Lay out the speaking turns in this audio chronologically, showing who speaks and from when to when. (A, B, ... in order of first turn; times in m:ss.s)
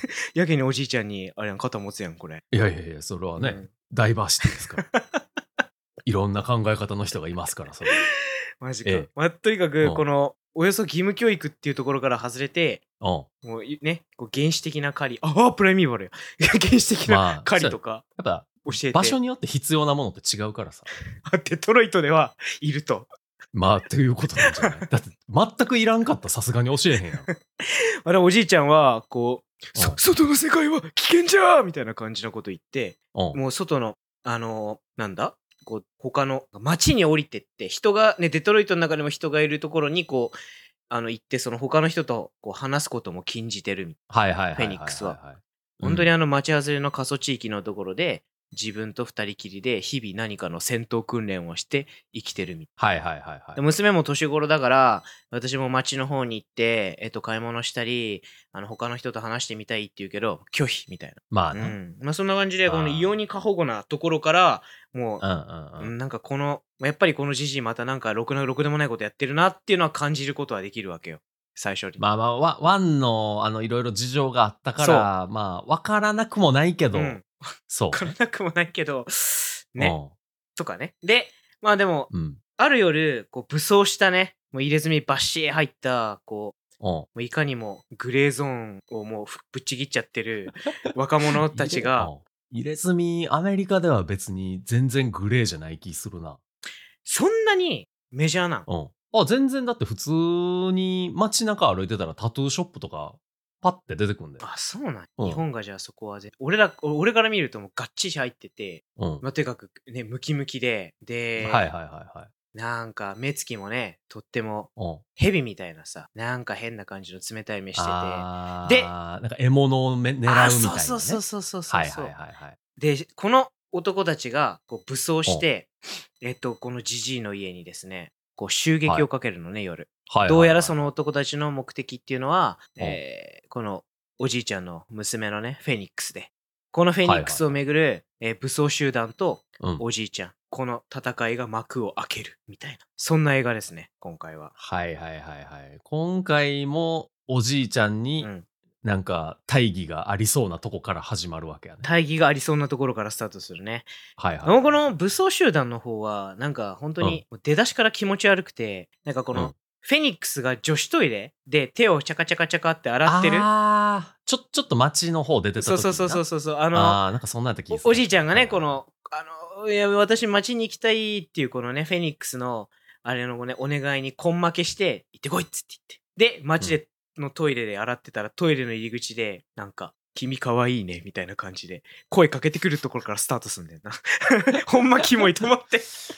0:00.3-0:02.4 A
0:02.5-0:04.8 B
0:03.4-0:03.7 A
0:04.4-0:05.2 A
0:06.0-0:08.0 B
0:08.6-0:12.8 A
0:13.0-0:13.3 B
0:13.4-0:18.0 A
0:17.0-0:20.9 B
0:18.6-0:19.2 A
0:21.2-0:23.1 A
0:23.5-0:27.3 B
0:24.4-0:24.8 A
0:27.2-0:40.4 A
0:40.9-0:44.0 A
0:44.1-0:46.1 B
0:44.5-0:45.2 A
0:45.8-0:52.7 A
0:52.8-0:53.6 B
0:53.6-1:05.2 A
1:01.3-1:01.8 B
1:02.6-1:03.1 B
1:05.2-1:05.9 B
1:05.8-1:12.0 A
1:12.0-1:17.2 B
1:14.8-1:15.1 A
1:16.9-1:20.0 A
1:17.7-1:18.1 B
1:19.8-1:20.1 B
1:20.6-1:26.6 A
1:22.1-1:22.4 B
1:26.8-1:27.1 B
1:27.1-1:32.1 A
1:31.4-1:36.4 B
1:37.0-1:38.7 A
1:38.7-1:44.4 B
1:44.4-1:51.7 A
1:49.0-1:49.2 B
1:51.4-1:52.3 B
1:52.5-1:58.9 A
1:54.8-1:55.0 B
1:57.8-2:02.6 B
2:00.2-2:02.1 A
2:02.8-2:24.5 A
2:10.1-2:10.8 B
2:17.0-2:17.6 B
2:24.6-2:28.3 B
2:28.2-2:28.4 A
2:28.8-2:31.9 B
2:31.8-2:33.9 A
2:34.2-2:34.8 B
2:34.4-2:43.5 A
2:43.0-2:48.8 B
2:45.6-2:47.0 A
2:47.7-3:05.9 A